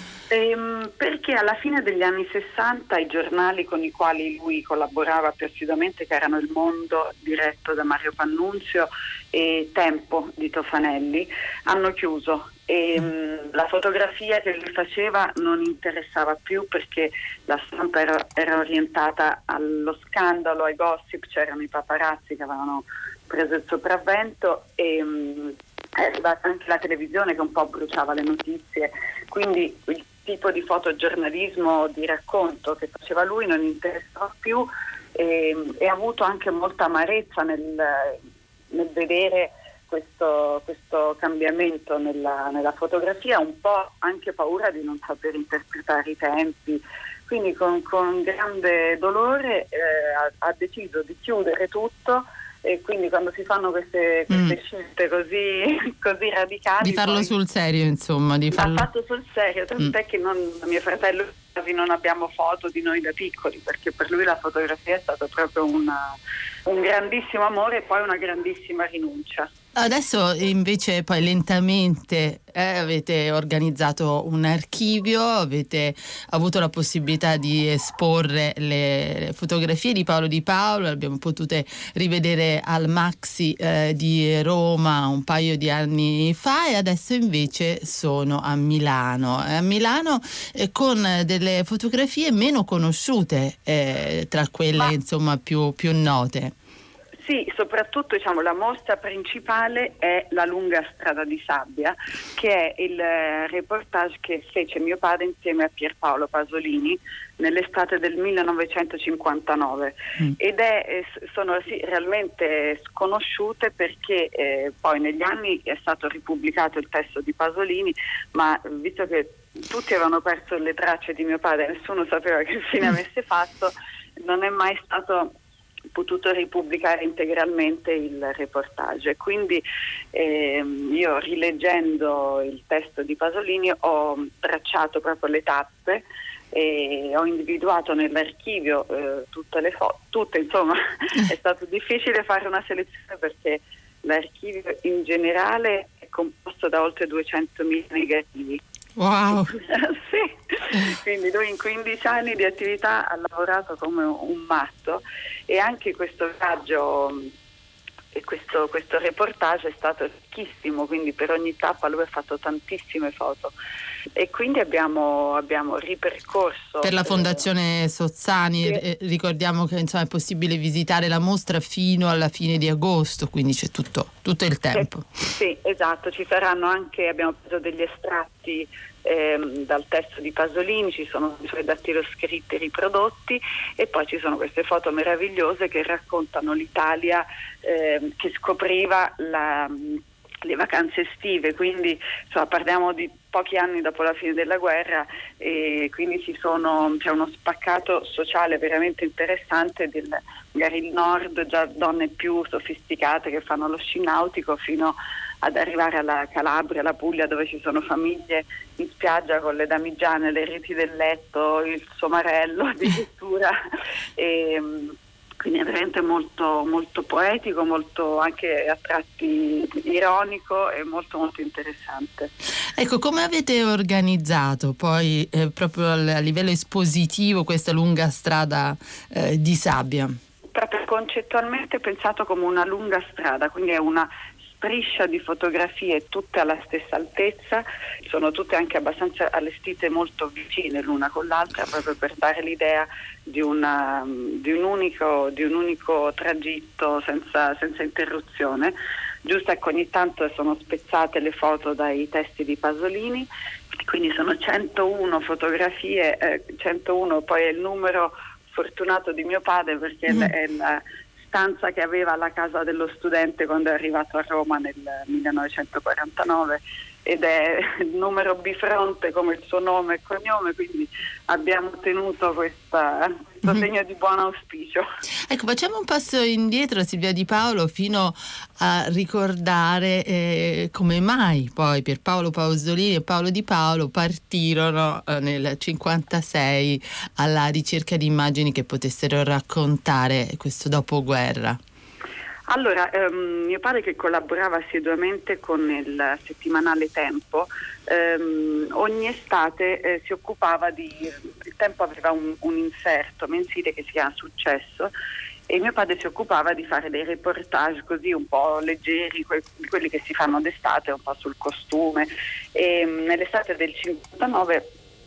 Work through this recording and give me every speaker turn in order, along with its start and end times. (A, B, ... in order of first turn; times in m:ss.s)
0:00.3-0:38.2 A
0:38.7-0:57.3 A
0:54.3-0:54.6 B
0:56.8-0:58.9 B
0:58.5-1:06.2 A
1:06.7-1:09.5 A
1:09.8-1:36.6 B
1:37.2-2:05.3 A
2:05.9-2:28.6 A
2:29.0-2:29.5 B
2:29.3-2:37.3 A
2:38.1-2:43.5 A
2:44.2-2:47.4 A
2:46.8-2:55.1 B
2:54.7-3:33.5 A
3:34.2-3:42.3 A
3:42.8-3:50.2 B
3:50.6-4:08.7 A
4:09.2-4:13.3 A
4:13.9-4:34.8 A
4:35.3-4:51.6 B
4:52.5-5:04.9 A
5:05.5-5:14.6 A